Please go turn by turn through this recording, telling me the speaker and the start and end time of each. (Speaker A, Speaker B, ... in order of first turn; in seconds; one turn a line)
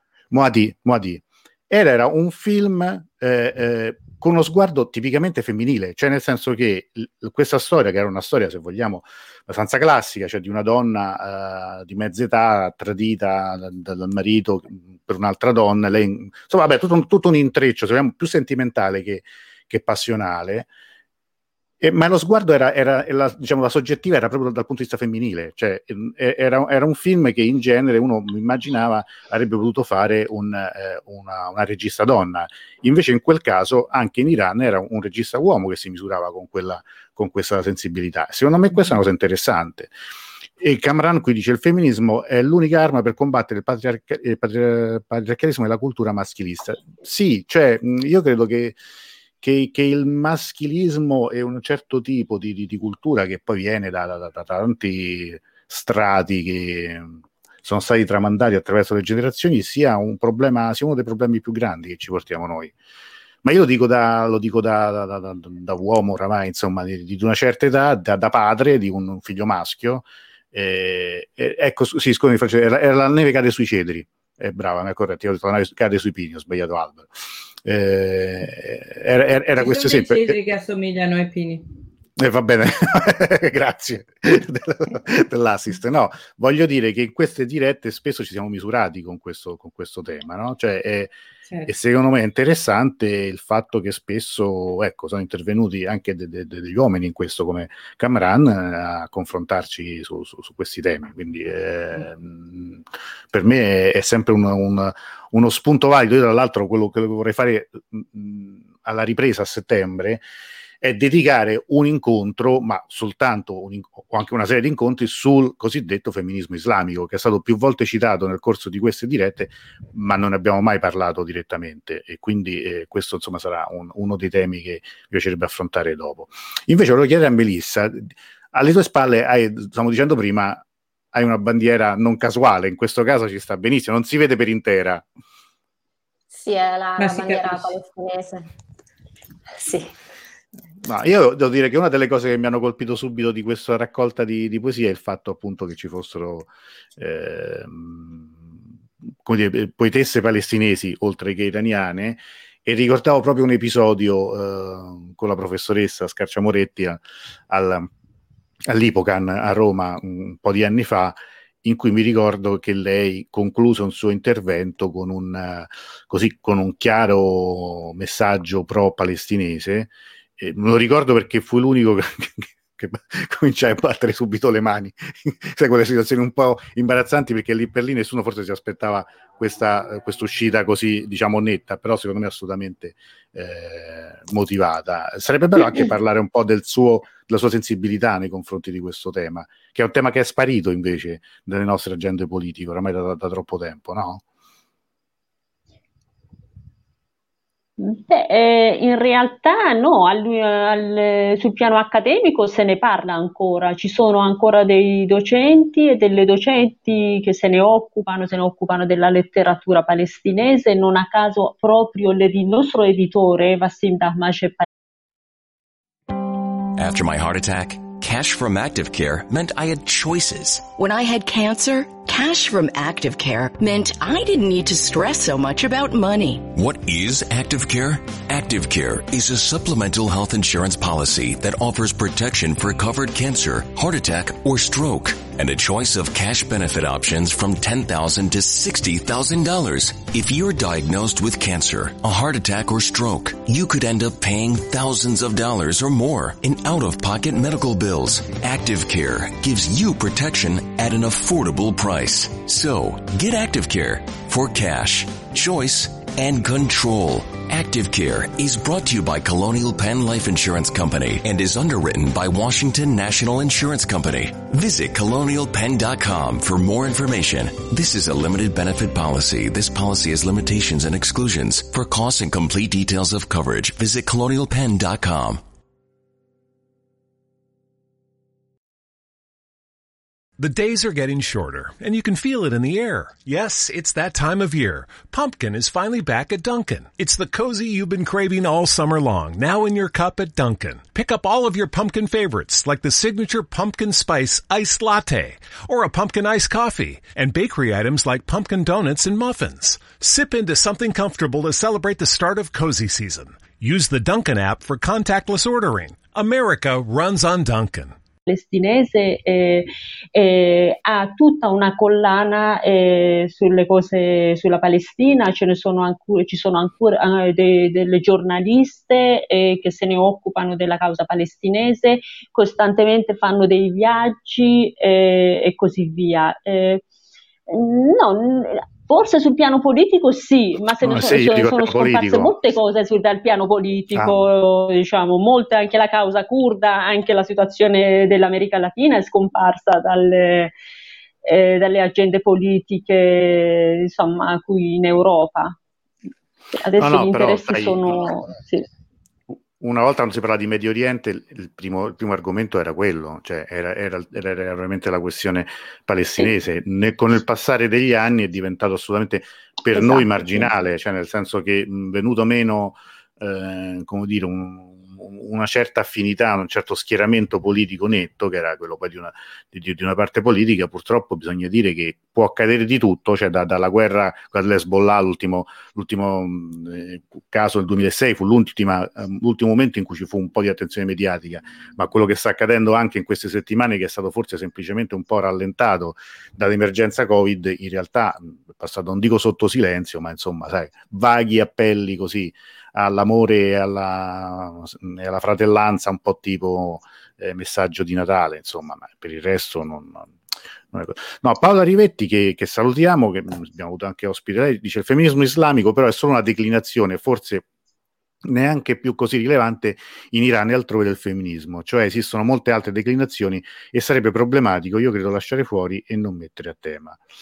Speaker A: 0.3-20.7
Speaker A: 21.8-39.9
Speaker A: 40.6-48.8
Speaker A: 49.4-62.7
Speaker A: 63.4-77.1
Speaker A: 77.6-80.3
Speaker B: 79.6-81.7
Speaker A: 82.2-91.1
Speaker A: 91.7-110.2
Speaker A: 110.8-135.1
Speaker C: 136.3-138.5
Speaker B: 137.0-137.8
Speaker C: 139.6-139.9
Speaker A: 140.8-148.6
Speaker A: 149.2-157.9
Speaker A: 158.7-194.2
Speaker D: 197.8-214.7
Speaker E: 216.8-220.7
Speaker F: 220.7-226.5
Speaker E: 226.5-275.4
Speaker G: 280.4-307.9
Speaker D: 308.3-326.8
Speaker D: 327.5-340.5
Speaker A: 330.8-332.4
Speaker A: 333.9-334.2
Speaker D: 341.2-345.5
Speaker D: 346.5-348.6
Speaker A: 346.8-348.1
Speaker A: 349.3-400.1
Speaker D: 359.7-360.5
Speaker A: 400.7-407.4
Speaker A: 408.2-417.0